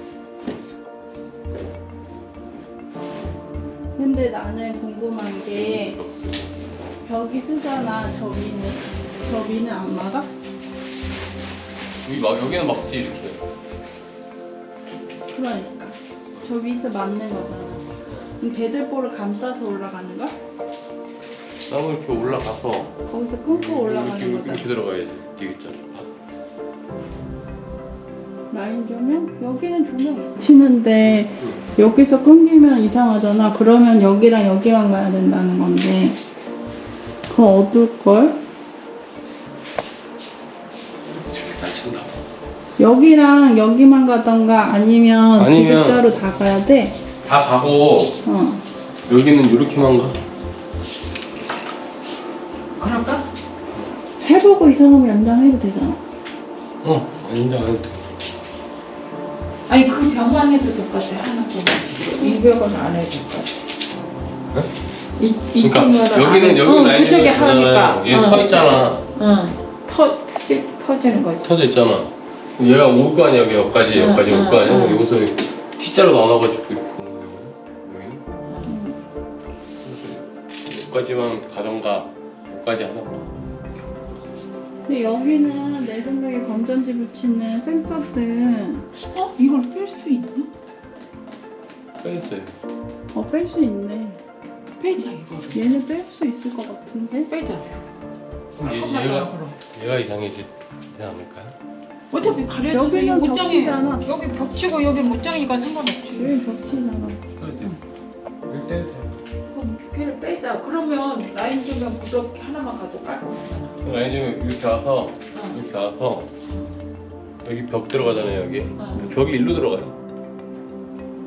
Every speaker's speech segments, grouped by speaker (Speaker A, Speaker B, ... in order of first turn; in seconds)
Speaker A: 4.0-6.0, 7.0-10.3, 15.3-17.9, 18.4-20.3, 23.1-24.7, 28.5-36.2, 37.3-38.4, 42.8-47.0, 48.2-48.6, 54.2-56.0, 78.7-79.0, 84.9-88.9, 93.1-94.2, 95.5-97.3, 102.7-104.1, 106.1-107.2
Speaker B: 5.5-6.5, 12.0-13.4, 21.7-23.0, 23.5-26.1, 31.3-31.6, 41.1-42.2, 45.4-46.0, 47.2-48.2, 49.1-50.2, 56.8-58.1, 65.6-69.1, 71.2-78.2, 79.8-84.2, 92.0-92.5, 98.6-101.5, 107.4-107.8, 108.5-109.1, 113.8-116.3, 117.4-120.0
Speaker C: 52.8-53.3, 59.7-63.6, 65.2-71.5, 73.9-75.1, 78.5-78.8, 88.9-90.5, 94.8-95.6, 97.3-97.7, 98.6-99.6, 102.1-106.4, 109.5-113.8, 115.3-115.6, 116.5-116.7, 118.8-119.1